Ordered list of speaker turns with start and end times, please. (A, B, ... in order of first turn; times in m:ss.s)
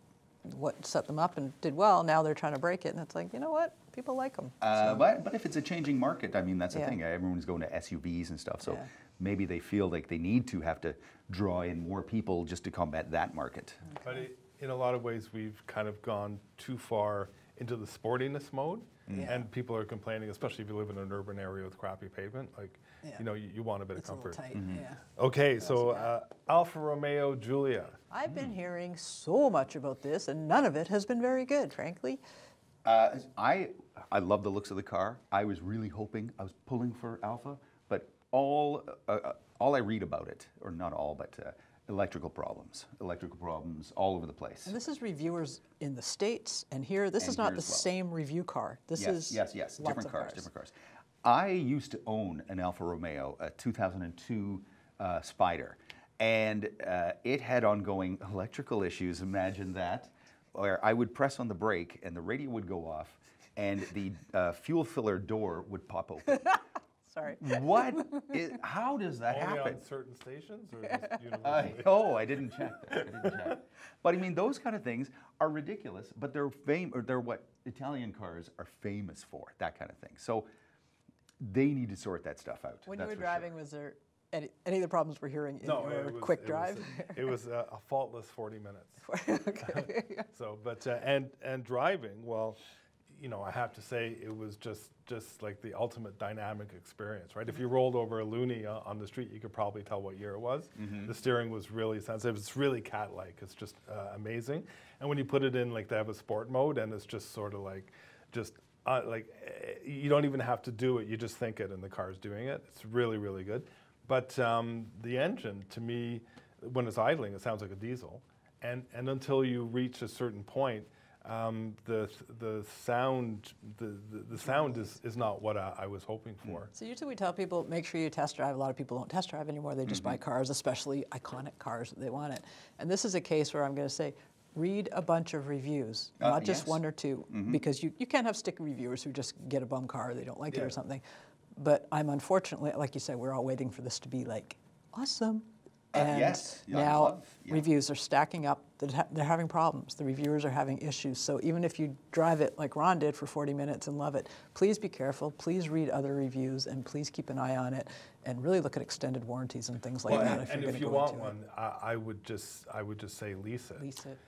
0:00.4-0:05.1 A
0:04.6-0:13.8 B
0:06.7-0:07.0 A
0:13.9-0:14.2 A
0:14.0-0:24.6 C
0:19.1-0:19.5 A
0:24.0-0:25.0 A
0:24.5-0:24.8 B
0:25.2-0:28.0 C
0:25.6-0:26.1 A
0:28.1-0:32.2 A
0:32.8-0:44.8 B
0:44.6-0:50.5 A
0:47.2-0:47.9 B
0:49.0-1:06.6 B
1:07.1-1:08.4 A
1:07.4-1:09.8 B
1:09.3-1:13.6 C
1:11.4-1:20.5 B
1:21.4-1:23.5 B
1:22.9-1:27.3 A
1:25.6-1:29.1 C
1:29.0-1:30.3 A
1:29.6-2:06.7 C
1:40.8-1:41.1 B
2:04.4-2:04.9 A
2:06.7-2:21.0 A
2:09.9-2:10.2 B
2:16.2-2:17.6 B
2:21.6-2:41.4 A
2:25.9-2:27.7 B
2:40.0-2:43.8 C
2:43.8-2:44.2 A